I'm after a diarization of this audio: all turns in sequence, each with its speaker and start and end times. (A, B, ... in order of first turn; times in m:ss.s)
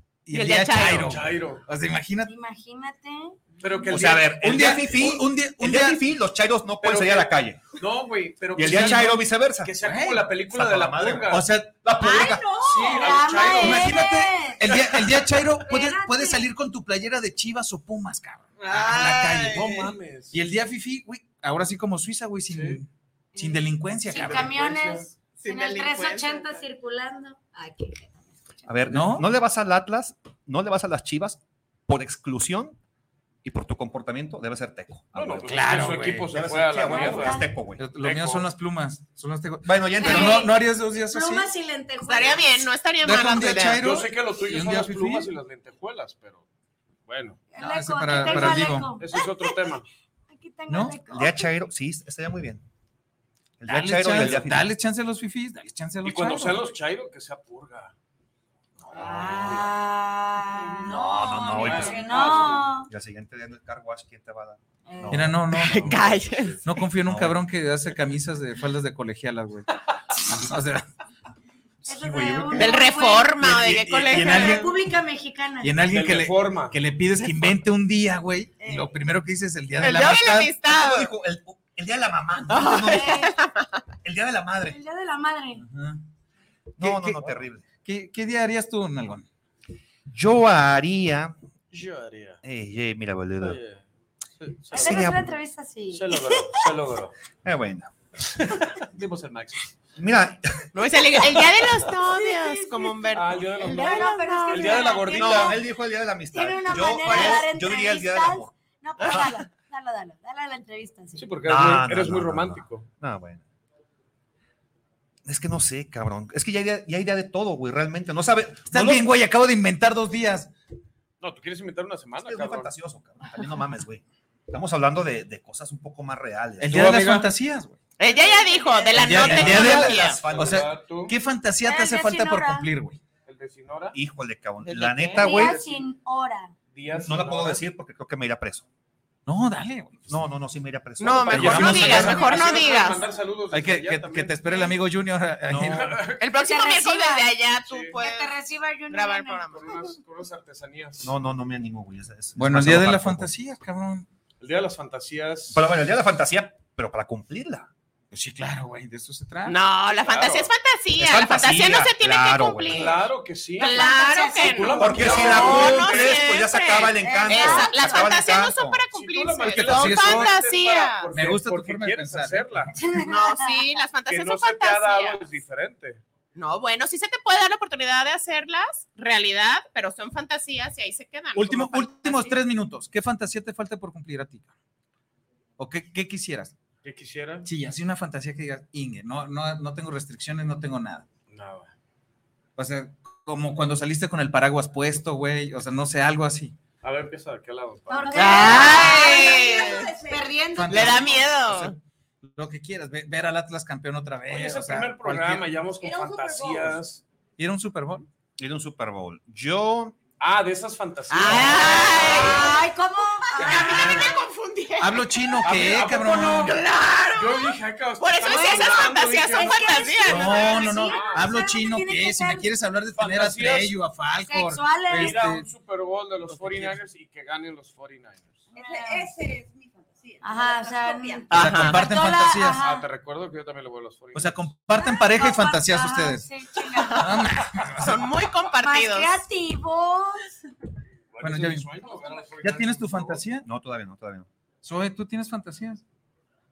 0:00.3-0:02.3 A
0:00.3-0:01.1 B
0:01.0-0:01.6 C
0:02.3-0:03.9 D
0:03.6-0:04.8 C
0:03.9-0:07.6 E
0:04.4-0:06.0 A
0:06.8-0:11.4 C
0:08.6-0:09.8 E
0:08.6-0:09.2 A
0:09.8-0:10.3 A
0:10.5-0:12.5 E
0:11.3-0:11.8 A
0:12.0-0:15.1 D
0:12.6-0:14.0 C
0:13.6-0:24.6 A
0:15.6-0:16.5 D
0:19.2-0:20.4 C
0:22.5-0:22.8 C
0:23.4-0:28.6 D
0:24.2-0:25.1 C
0:25.4-0:26.6 B
0:28.7-0:32.8 E
0:28.9-0:29.3 A
0:33.4-0:37.8 E
0:35.1-0:37.4 C
0:35.4-0:36.3 A
0:36.8-0:37.5 D
0:37.8-0:41.5 A
0:38.0-0:38.4 C
0:39.6-0:40.5 E
0:40.0-0:42.7 D
0:42.0-0:43.8 B
0:43.0-0:45.3 A
0:43.6-0:46.5 C
0:47.1-0:47.4 C
0:47.5-0:49.7 D
0:47.6-0:48.9 A
0:48.2-0:49.9 C
0:50.3-0:51.5 D
0:50.7-0:51.0 A
0:51.1-0:52.6 E
0:53.6-0:54.7 E
0:53.7-0:56.7 A
0:54.2-0:54.4 C
0:56.0-0:57.9 C
0:58.8-0:59.7 C
0:58.9-1:02.9 D
1:00.6-1:01.0 F
1:00.9-1:02.7 C
1:01.0-1:02.1 E
1:02.1-1:02.5 F
1:02.8-1:05.4 E
1:04.9-1:05.3 D
1:05.1-1:06.0 A
1:05.5-1:06.6 B
1:05.6-1:06.6 C
1:06.6-1:09.7 A
1:07.0-1:07.4 E
1:10.3-1:10.9 A
1:11.8-1:12.8 E
1:11.8-1:13.5 D
1:12.6-1:14.7 B
1:13.4-1:14.7 A
1:14.1-1:15.7 D
1:15.6-1:20.5 A
1:15.9-1:16.8 C
1:18.6-1:18.9 D
1:19.8-1:21.1 B
1:20.6-1:23.2 E
1:22.5-1:23.8 B
1:22.6-1:23.3 D
1:24.0-1:24.8 E
1:24.6-1:25.6 D
1:25.6-1:26.0 A
1:26.8-1:27.6 E
1:26.8-1:29.3 A
1:30.1-1:31.3 E
1:31.7-1:32.4 C
1:32.4-1:33.6 E
1:33.4-1:33.8 C
1:34.4-1:35.1 C
1:34.7-1:35.4 E
1:34.7-1:36.5 D
1:35.9-1:37.1 C
1:37.4-1:37.9 E
1:38.5-1:39.8 C
1:40.0-1:40.7 E
1:40.7-1:45.1 B
1:41.2-1:41.9 C
1:42.0-1:45.6 D
1:43.1-1:45.6 C
1:45.2-1:49.3 E
1:46.3-1:51.3 D
1:51.2-1:52.9 C
1:51.4-1:53.4 E
1:55.2-1:59.1 E
1:58.7-2:00.5 A
2:01.2-2:02.7 C
2:02.2-2:06.9 E
2:06.6-2:07.8 A
2:06.7-2:07.3 C
2:08.0-2:10.2 B
2:08.1-2:09.2 D
2:09.0-2:13.0 A
2:09.1-2:10.7 E
2:09.3-2:11.2 C
2:11.6-2:12.7 D
2:13.2-2:14.0 C
2:13.9-2:15.6 E
2:14.6-2:15.3 B
2:15.1-2:16.5 D
2:15.2-2:15.9 C
2:16.7-2:17.6 C
2:16.9-2:18.6 E
2:19.3-2:20.1 A
2:20.1-2:22.3 E
2:21.0-2:23.1 B
2:21.3-2:24.4 C
2:21.3-2:22.4 A
2:21.9-2:22.8 D
2:23.5-2:26.0 A
2:25.5-2:26.0 E
2:25.6-2:26.2 C
2:26.2-2:28.4 B
2:26.4-2:27.4 D
2:27.6-2:28.0 C
2:28.0-2:30.0 D
2:28.9-2:29.6 B
2:29.5-2:31.1 C
2:31.0-2:33.3 E
2:32.4-2:34.1 A
2:34.4-2:35.8 C
2:35.5-2:37.7 E
2:38.1-2:39.6 A
2:39.5-2:43.0 B
2:40.0-2:40.5 C
2:41.0-2:43.0 E
2:42.6-2:46.2 C
2:43.6-2:51.1 B
2:43.6-2:45.7 D
2:44.8-2:48.8 E
2:47.0-2:47.7 D
2:47.1-2:47.6 F
2:48.9-2:52.7 C
2:49.4-2:50.4 A
2:51.1-2:52.9 A
2:52.8-2:53.6 D
2:53.0-2:55.2 B
2:54.1-2:56.0 C
2:56.3-3:02.4 B
3:01.4-3:04.5 A
3:05.6-3:06.6 A
3:06.8-3:07.5 C
3:07.4-3:11.1 A
3:11.3-3:11.7 C
3:12.6-3:16.6 A
3:16.8-3:18.9 C
3:17.9-3:21.0 D
3:18.0-3:20.5 F
3:18.1-3:19.9 B
3:20.6-3:25.5 A
3:20.7-3:21.7 B
3:24.3-3:27.0 C
3:25.8-3:26.8 F
3:27.4-3:28.1 A
3:28.4-3:30.0 E
3:30.2-3:32.4 C
3:31.1-3:32.6 B
3:31.2-3:31.8 A
3:31.5-3:34.3 D
3:33.2-3:33.8 F
3:33.4-3:35.5 B
3:33.4-3:34.1 C
3:34.8-3:36.6 A
3:35.4-3:36.6 C
3:36.3-3:40.5 B
3:37.1-3:41.3 C
3:38.3-3:42.5 D
3:40.0-3:45.5 A
3:43.0-3:43.8 C
3:44.3-3:45.2 D
3:44.9-3:48.4 C
3:46.3-3:46.8 A
3:48.5-3:51.3 F
3:48.6-3:49.1 D
3:50.2-3:52.9 D
3:51.3-3:51.8 B
3:51.3-3:52.6 A
3:52.6-3:54.5 C
3:54.1-3:56.3 A
3:54.8-3:57.2 D
3:56.7-3:59.2 B
3:57.0-3:58.2 A
3:58.6-4:00.3 D
4:01.1-4:03.2 C
4:01.2-4:01.8 A
4:02.4-4:03.5 A
4:03.4-4:04.3 E
4:04.6-4:05.8 A